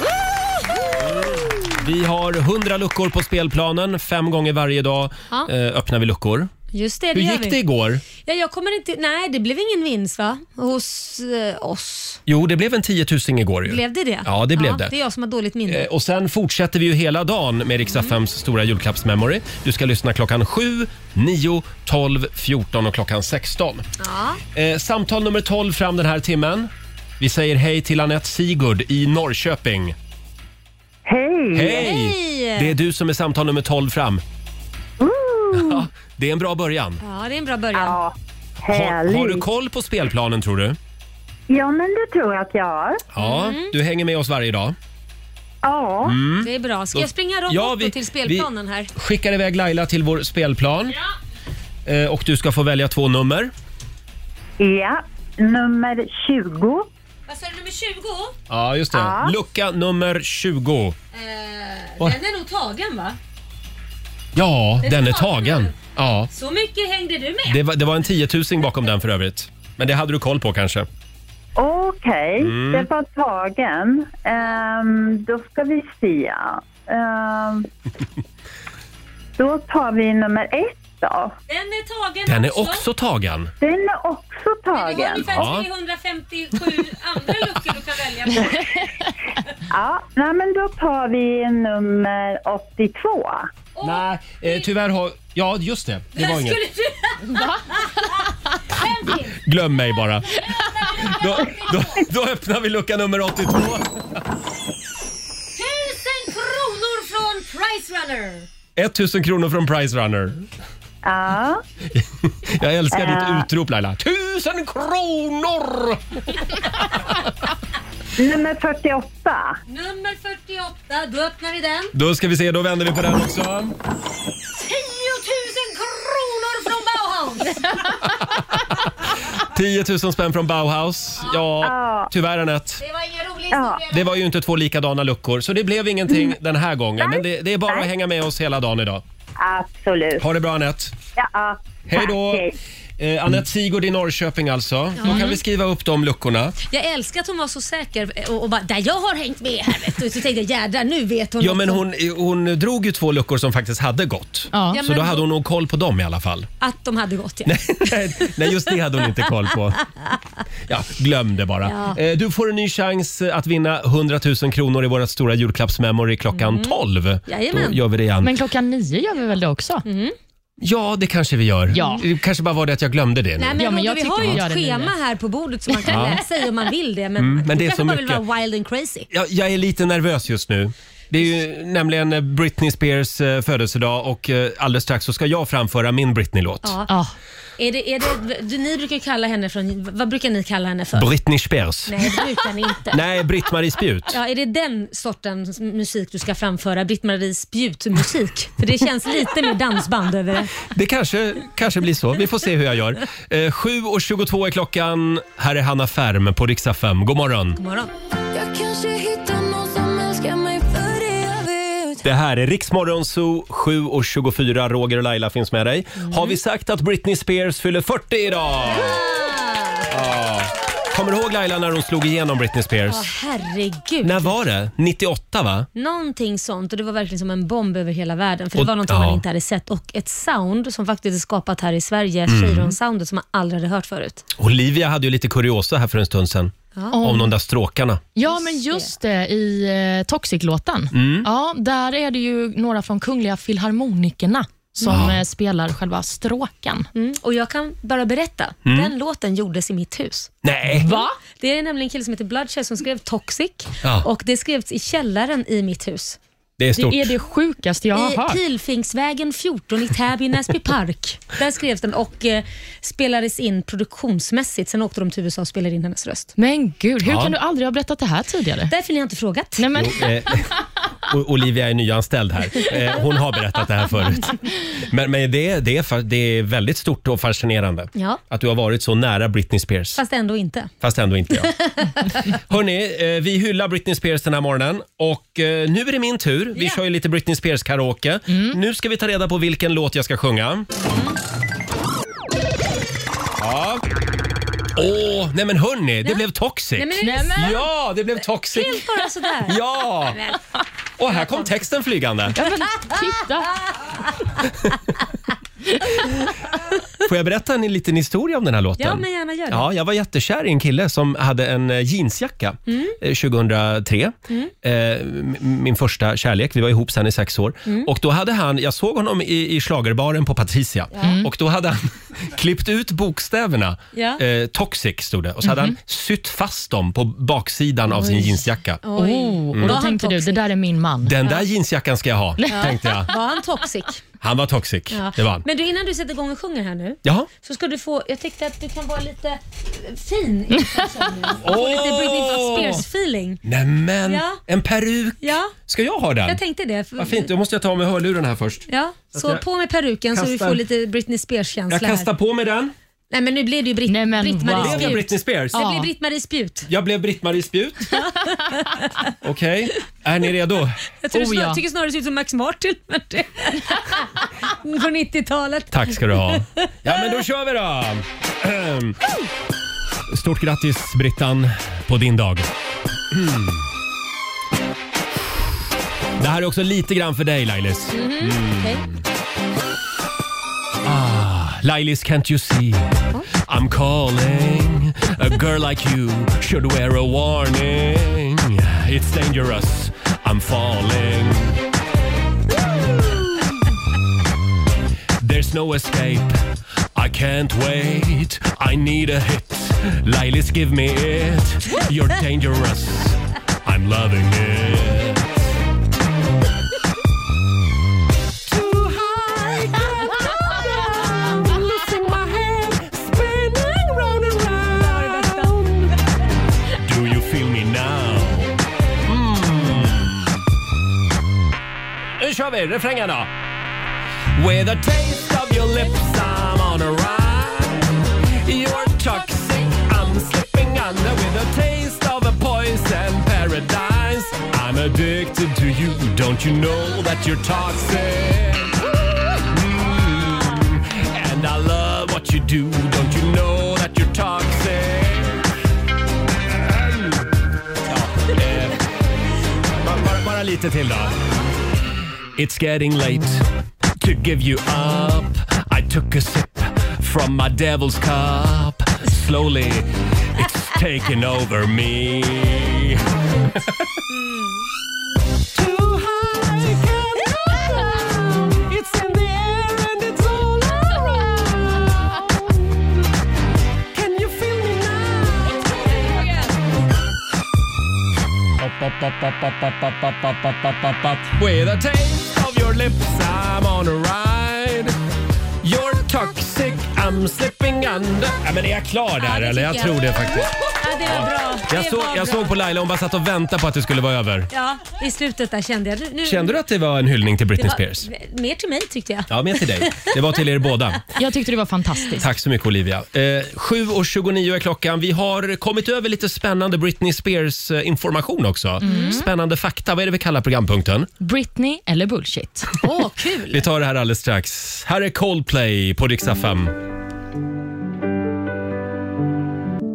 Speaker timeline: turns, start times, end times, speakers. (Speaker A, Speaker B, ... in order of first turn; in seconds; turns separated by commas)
Speaker A: 0.7-1.3, Speaker B: 1.0-6.5, Speaker A: 6.7-7.6, Speaker B: 7.1-8.0, Speaker A: 8.2-12.2, Speaker B: 12.3-14.9, Speaker A: 13.6-15.9, Speaker B: 15.7-23.9, Speaker A: 24.0-24.4, Speaker B: 24.5-29.9, Speaker C: 31.1-31.9, Speaker B: 31.5-34.2, Speaker A: 31.7-32.7, Speaker C: 35.0-35.9, Speaker B: 35.5-37.0, Speaker A: 37.0-38.0, Speaker C: 37.7-39.5, Speaker B: 38.7-40.8, Speaker C: 41.5-43.0, Speaker B: 43.1-44.7, Speaker A: 43.2-43.7, Speaker C: 45.6-46.2, Speaker B: 46.0-51.0, Speaker A: 46.4-48.9, Speaker B: 51.8-53.5, Speaker C: 54.6-56.9, Speaker A: 57.3-58.3, Speaker B: 58.5-61.0, Speaker C: 58.9-59.3, Speaker A: 61.1-63.2, Speaker B: 64.3-66.3, Speaker A: 64.8-65.7, Speaker A: 66.3-67.6, Speaker B: 67.5-70.9, Speaker C: 71.5-77.7, Speaker B: 72.4-72.9, Speaker C: 79.4-81.3, Speaker A: 81.5-82.8, Speaker B: 82.2-83.5, Speaker C: 83.6-85.5, Speaker A: 84.7-88.8, Speaker B: 85.2-85.7, Speaker C: 89.7-93.5, Speaker A: 93.8-94.7, Speaker B: 93.8-96.6, Speaker A: 96.1-99.4, Speaker D: 97.3-97.6, Speaker B: 99.4-100.4, Speaker A: 100.3-102.0, Speaker B: 101.0-104.0, Speaker A: 105.5-108.5, Speaker B: 108.8-110.4, Speaker C: 111.0-111.6, Speaker B: 111.9-116.4, Speaker C: 112.9-113.5, Speaker C: 118.2-119.6, Speaker A: 119.7-121.9, Speaker B: 121.9-123.8, Speaker A: 124.6-127.9, Speaker B: 129.4-132.8, Speaker C: 131.6-132.1, Speaker A: 132.8-134.2, Speaker C: 133.5-133.8, Speaker B: 133.9-139.0, Speaker C: 137.0-137.9, Speaker C: 139.4-140.2, Speaker B: 140.2-140.9, Speaker C: 141.2-142.5, Speaker B: 141.9-142.5, Speaker B: 143.0-146.6, Speaker A: 145.0-145.4, Speaker A: 146.6-151.8, Speaker B: 151.4-156.5, Speaker D: 154.5-154.8, Speaker A: 154.7-155.2, Speaker A: 156.6-158.7, Speaker B: 157.4-159.8, Speaker B: 160.7-168.3, Speaker A: 161.6-162.0, Speaker A: 166.3-167.8, Speaker D: 168.2-169.8, Speaker A: 169.8-170.1, Speaker B: 170.6-173.7, Speaker D: 171.7-172.0, Speaker A: 173.4-179.1, Speaker D: 173.6-174.9, Speaker D: 175.7-176.1, Speaker B: 175.9-176.2, Speaker B: 177.2-178.2, Speaker B: 179.1-186.8, Speaker A: 186.6-186.9, Speaker D: 186.9-187.1, Speaker A: 187.6-191.1, Speaker B: 190.9-192.2, Speaker A: 191.9-193.0, Speaker B: 192.9-194.2, Speaker A: 194.1-200.5, Speaker B: 200.6-207.6, Speaker A: 207.6-207.9, Speaker E: 208.3-212.0, Speaker B: 212.0-219.0, Speaker A: 216.0-216.4, Speaker A: 218.6-219.9, Speaker B: 219.9-223.1, Speaker A: 222.9-224.3, Speaker B: 224.0-225.7, Speaker A: 225.7-234.2, Speaker B: 228.6-229.2, Speaker B: 232.3-232.8, Speaker B: 234.4-238.0, Speaker D: 236.9-237.3, Speaker D: 238.2-246.9, Speaker A: 238.2-238.9, Speaker B: 240.9-241.3, Speaker B: 244.8-245.2, Speaker A: 246.9-250.3, Speaker B: 248.6-248.9, Speaker B: 250.4-250.9, Speaker D: 250.8-251.2, Speaker A: 250.9-256.2, Speaker B: 256.6-257.1, Speaker D: 256.7-258.4, Speaker A: 257.9-266.3, Speaker D: 266.4-268.7, Speaker B: 267.0-267.4, Speaker A: 268.7-269.6, Speaker D: 269.6-270.4, Speaker B: 269.7-270.5, Speaker B: 271.1-280.0, Speaker A: 277.9-278.2, Speaker A: 279.9-280.7, Speaker B: 280.8-281.5, Speaker A: 281.3-282.2, Speaker B: 282.3-290.7, Speaker A: 286.5-286.8, Speaker D: 288.3-288.6, Speaker A: 290.8-291.1, Speaker B: 293.4-293.8, Speaker B: 294.8-298.9, Speaker A: 296.8-297.5, Speaker D: 297.0-297.7, Speaker A: 298.5-300.4, Speaker B: 299.4-300.2, Speaker B: 301.0-302.4, Speaker A: 301.1-301.4, Speaker D: 302.3-303.5, Speaker B: 307.0-328.8, Speaker A: 308.8-309.7, Speaker A: 312.7-312.9, Speaker A: 320.9-321.2, Speaker D: 321.0-321.3, Speaker A: 323.9-324.2, Speaker D: 325.4-325.7, Speaker D: 328.0-328.3, Speaker A: 328.8-330.4, Speaker D: 328.9-331.2, Speaker B: 329.5-329.8, Speaker B: 331.0-333.1, Speaker A: 332.5-334.0, Speaker B: 334.2-335.4, Speaker A: 334.9-343.4, Speaker B: 337.0-337.3, Speaker B: 341.4-342.8, Speaker B: 343.4-346.4, Speaker A: 344.1-344.4, Speaker A: 345.2-345.5, Speaker A: 346.2-347.3, Speaker B: 347.0-349.4, Speaker A: 348.7-352.1, Speaker B: 350.1-350.6, Speaker B: 351.7-352.7, Speaker A: 353.1-356.7, Speaker D: 353.9-355.9, Speaker B: 354.5-355.6, Speaker B: 356.7-358.0, Speaker A: 357.9-359.1, Speaker B: 359.2-360.8, Speaker A: 361.0-366.7, Speaker D: 361.1-361.6, Speaker B: 365.7-369.0, Speaker B: 370.1-372.5, Speaker B: 373.1-373.7, Speaker B: 376.2-379.0, Speaker A: 377.9-378.8, Speaker B: 380.8-382.9, Speaker B: 383.4-391.6, Speaker B: 392.9-393.7, Speaker B: 395.2-396.4, Speaker B: 396.9-405.5, Speaker B: 408.4-415.9, Speaker A: 410.1-411.1, Speaker A: 415.0-415.5, Speaker B: 416.8-420.4, Speaker B: 422.2-423.3, Speaker B: 424.3-445.4, Speaker B: 446.5-448.8, Speaker B: 449.7-451.2, Speaker B: 452.4-453.4, Speaker B: 454.0-463.9, Speaker A: 464.1-464.6, Speaker B: 465.5-472.9, Speaker B: 473.9-476.2, Speaker A: 475.7-476.4, Speaker B: 478.6-485.0, Speaker B: 485.6-494.5, Speaker A: 489.2-492.6, Speaker A: 494.5-496.6, Speaker B: 496.2-498.1, Speaker A: 497.6-500.1, Speaker B: 499.3-501.0, Speaker D: 501.1-502.3, Speaker B: 502.2-511.1, Speaker A: 508.8-509.2, Speaker D: 508.8-509.3, Speaker D: 511.2-512.8, Speaker A: 512.8-513.6, Speaker B: 513.5-516.7